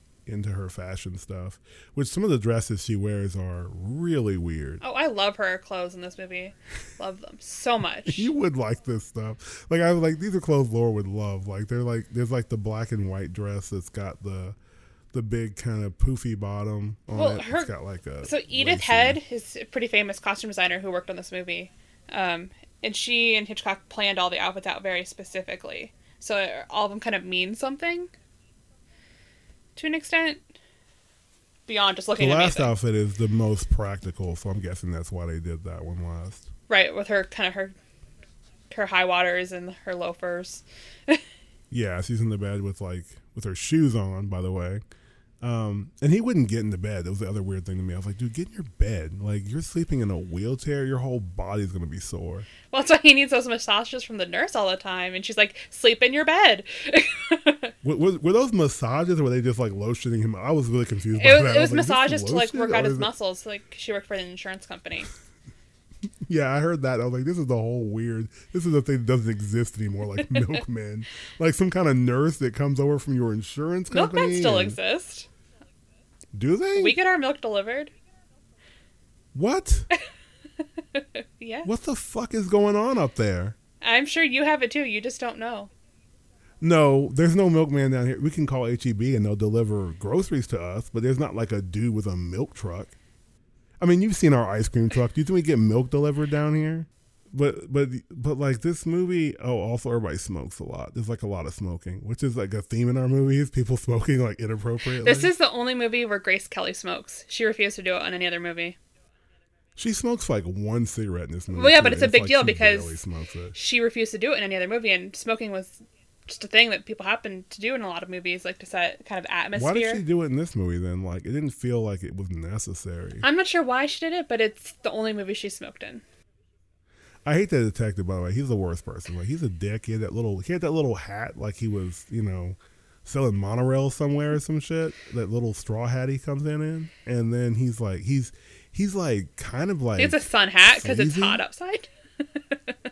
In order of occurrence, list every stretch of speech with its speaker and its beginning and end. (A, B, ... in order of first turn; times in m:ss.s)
0:00.2-0:04.8 A
0:04.8-0:08.3 B
0:08.0-0:14.6 A
0:15.1-0:19.2 A
0:17.1-0:17.7 B
0:18.2-0:28.1 B
0:29.8-0:30.4 B
0:31.7-0:32.7 B
0:32.2-0:36.5 A
0:36.7-0:37.7 B
0:38.7-0:41.2 B
0:41.7-0:44.8 A
0:45.4-0:52.5 A
0:52.7-0:57.7 B
0:57.8-1:03.1 A
1:01.1-1:05.1 B
1:06.2-1:14.8 A
1:13.9-1:15.3 B
1:16.3-1:17.0 A
1:16.8-1:17.9 B
1:19.3-1:19.9 A
1:20.9-1:21.7 B
1:21.6-1:23.6 A
1:23.8-1:25.7 B
1:26.6-1:32.9 A
1:33.8-1:45.3 A
1:45.0-1:48.8 B
1:49.8-1:53.5 A
1:51.5-2:00.0 B
1:59.5-2:03.2 A
2:03.2-2:06.0 B
2:07.2-2:21.4 A
2:20.0-2:21.9 B